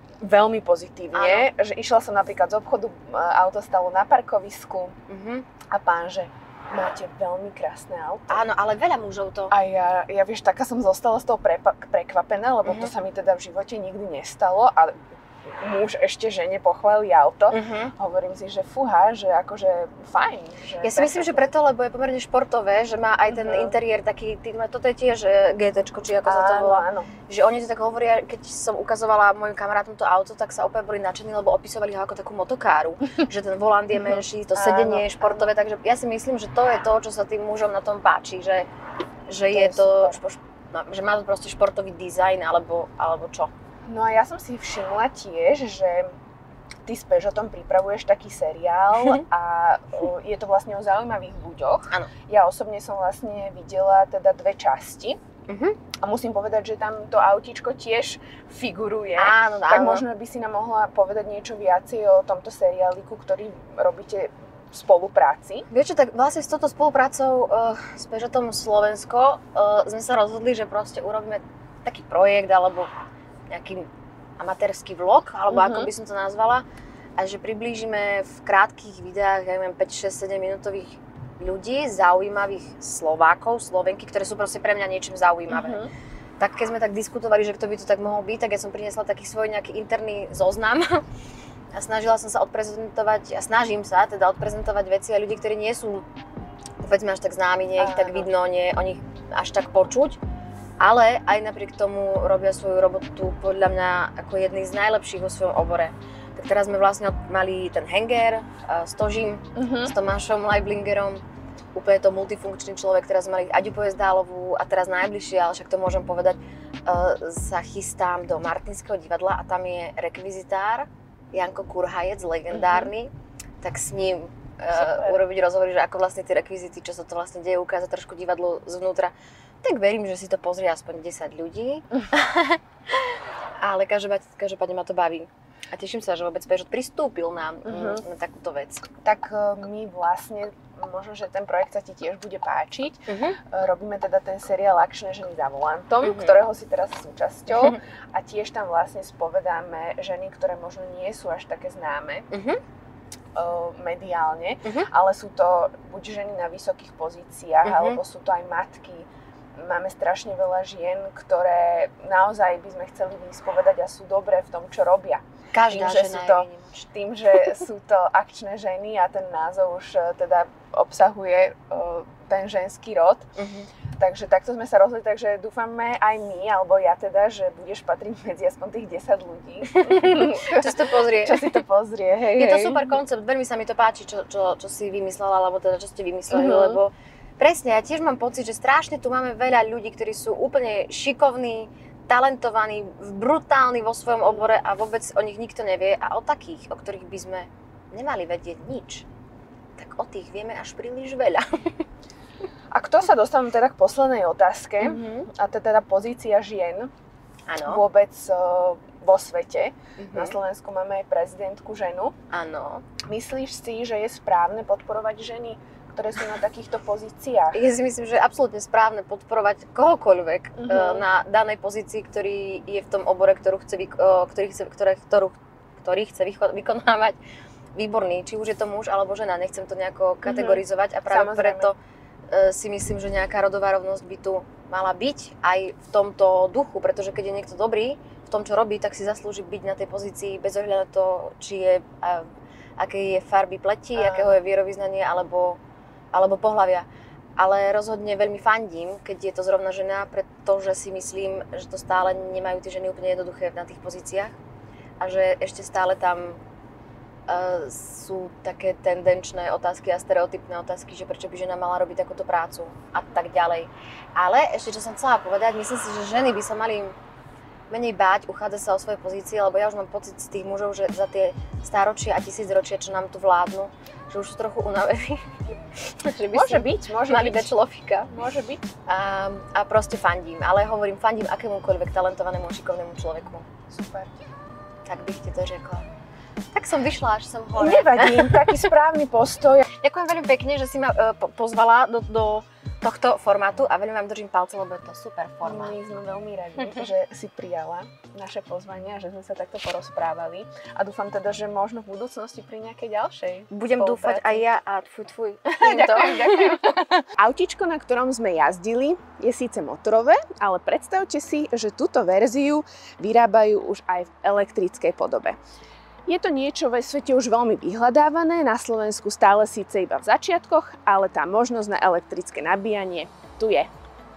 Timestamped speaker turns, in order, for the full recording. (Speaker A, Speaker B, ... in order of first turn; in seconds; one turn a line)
Speaker A: 0.2-4.9
Speaker B: 1.1-1.5
Speaker B: 5.1-5.5
Speaker A: 5.7-8.4
Speaker B: 8.3-9.5
Speaker A: 9.5-21.5
Speaker B: 12.7-12.9
Speaker B: 17.5-17.9
Speaker B: 20.8-38.7
Speaker A: 23.3-23.8
Speaker A: 26.2-27.1
Speaker A: 34.0-35.5
Speaker B: 39.3-43.5
Speaker A: 39.5-40.2
Speaker A: 43.9-46.1
Speaker A: 46.8-55.2
Speaker B: 55.5-55.8
Speaker A: 56.0-65.7
Speaker B: 59.2-60.0
Speaker B: 65.7-72.9
Speaker B: 73.5-73.9
Speaker B: 74.4-76.6
Speaker A: 75.5-75.9
Speaker B: 77.2-85.8
Speaker A: 85.5-85.9
Speaker B: 86.4-91.0
Speaker B: 91.7-96.0
Speaker B: 96.8-100.2
Speaker A: 97.8-98.3
Speaker B: 100.8-111.2
Speaker A: 109.5-109.9
Speaker B: 111.7-138.8
Speaker A: 122.5-122.9
Speaker A: 124.7-125.2
Speaker A: 137.6-138.0
Speaker A: 139.0-152.3
Speaker B: 143.1-143.4
Speaker B: 146.0-146.4
Speaker B: 152.3-152.6
Speaker A: 153.3-173.3
Speaker B: 157.6-158.0
Speaker B: 165.5-166.8
Speaker B: 173.4-173.7
Speaker A: 174.0-183.0
Speaker B: 179.8-181.4
Speaker B: 182.3-199.1
Speaker A: 186.3-186.8
Speaker B: 199.8-201.7
Speaker A: 202.7-206.9
Speaker B: 204.8-205.3
Speaker B: 207.5-207.8
Speaker A: 207.6-212.1
Speaker B: 210.0-210.4
Speaker B: 212.3-212.8
Speaker A: 213.1-217.6
Speaker B: 217.5-227.2
Speaker A: 220.6-221.0
Speaker B: 227.8-231.8
Speaker A: 230.2-231.7
Speaker B: 232.3-245.6
Speaker A: 243.9-244.4
Speaker B: 246.1-246.8
Speaker B: 247.4-254.3
Speaker B: 255.0-256.4
Speaker B: 257.3-266.9
Speaker B: 267.7-278.1
Speaker A: 276.3-277.5
Speaker A: 278.1-278.6
Speaker B: 278.9-283.5
Speaker A: 283.7-284.2
Speaker B: 284.8-285.9
Speaker B: 286.5-288.6
Speaker A: 287.5-289.6
Speaker B: 289.8-295.8
Speaker A: 295.4-304.4
Speaker B: 303.5-307.0
Speaker A: 305.6-315.4
Speaker A: 316.1-323.7